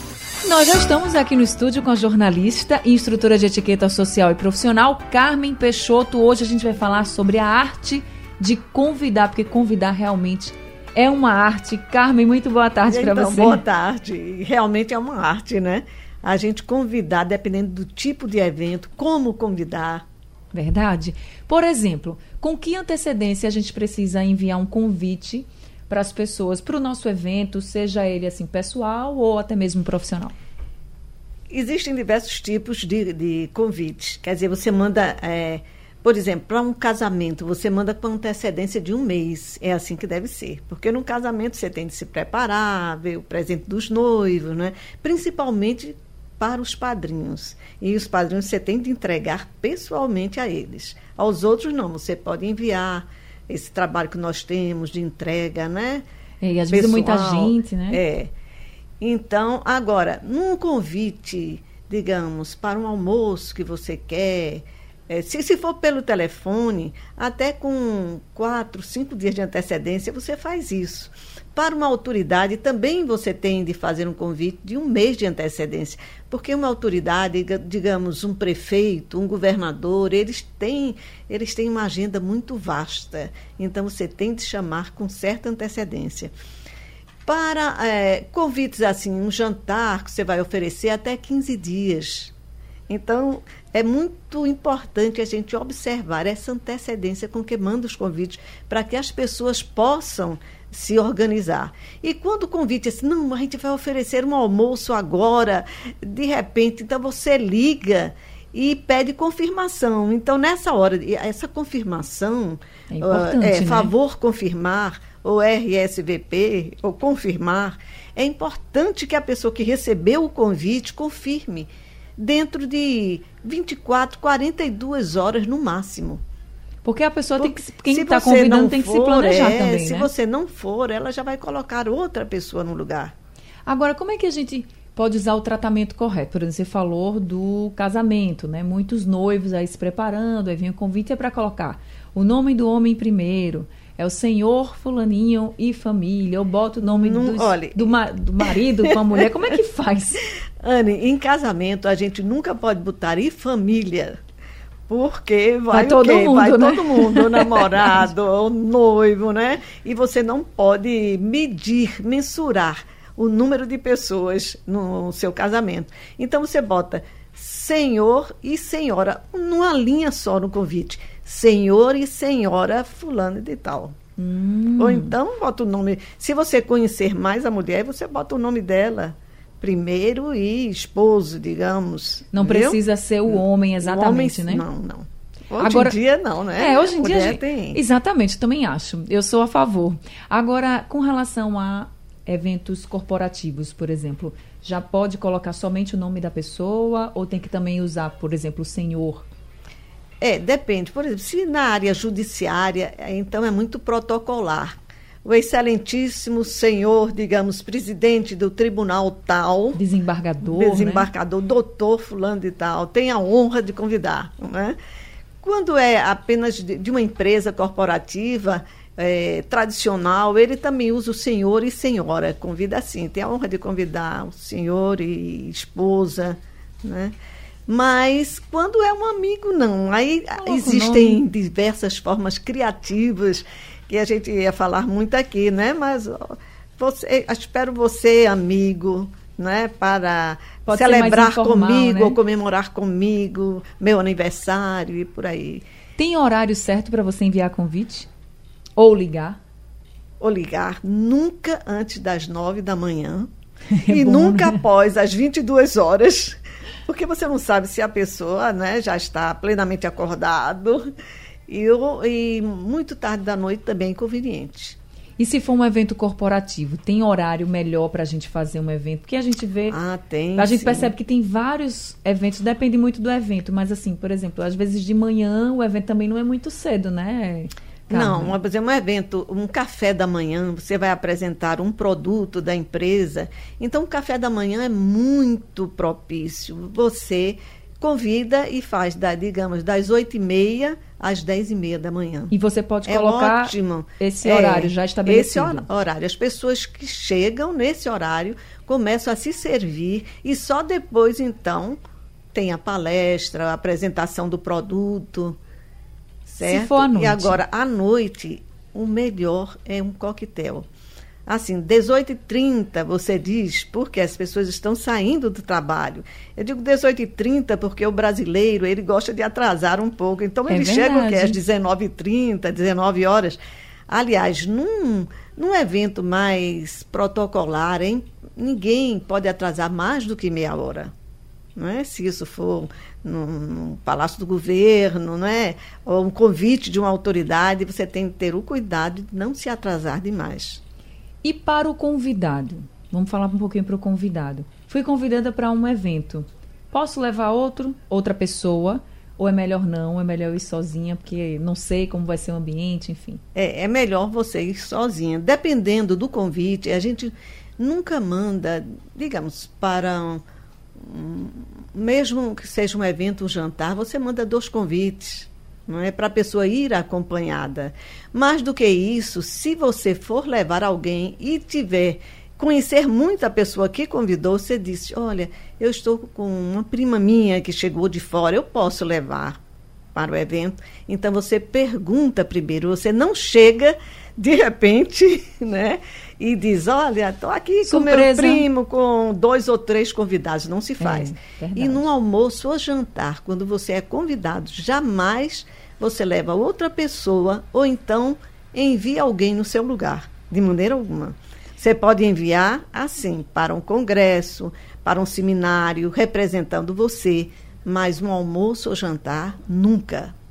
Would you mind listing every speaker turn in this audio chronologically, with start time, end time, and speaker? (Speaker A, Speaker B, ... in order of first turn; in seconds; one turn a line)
Speaker A: 0.4-13.6
Speaker B: 12.8-20.0
Speaker A: 20.5-30.3
Speaker B: 31.5-56.0
Speaker A: 56.4-58.0
Speaker B: 56.7-58.3
Speaker B: 59.0-86.3
Speaker B: 87.2-92.3
Speaker B: 92.9-126.2
Speaker A: 112.9-113.9
Speaker A: 126.8-130.1
Speaker B: 127.4-133.1
Speaker A: 133.7-150.2
Speaker B: 146.8-149.2
Speaker B: 150.6-154.2
Speaker B: 154.9-173.9
Speaker A: 155.7-158.1
Speaker A: 174.2-175.1
Speaker B: 174.8-187.8
Speaker A: 182.3-184.6
Speaker A: 185.6-186.0
Speaker A: 186.6-199.3
Speaker B: 200.2-209.8
Speaker A: 209.7-211.1
Speaker B: 210.4-214.8
Speaker B: 215.4-227.1
Speaker B: 227.7-245.6
Speaker A: 230.3-231.2
Speaker A: 240.6-242.2
Speaker A: 246.0-248.1
Speaker A: 248.8-249.4
Speaker B: 250.2-253.3
Speaker A: 253.7-254.6
Speaker B: 253.9-260.9
Speaker B: 261.5-264.8
Speaker A: 265.2-269.8
Speaker B: 269.7-270.9
Speaker A: 270.3-278.4
Speaker B: 277.9-292.3
Speaker A: 292.3-295.7
Speaker B: 292.8-301.8
Speaker B: 302.3-305.4
Speaker B: 306.2-310.7
Speaker A: 306.4-307.4
Speaker B: 311.3-330.9
Speaker A: 320.5-321.4
Speaker B: 331.6-340.6
Speaker A: 341.2-353.2
Speaker B: 353.3-360.2
Speaker B: 360.8-379.4
Speaker B: 379.9-410.1
Speaker A: 387.6-388.5
Speaker A: 390.8-391.9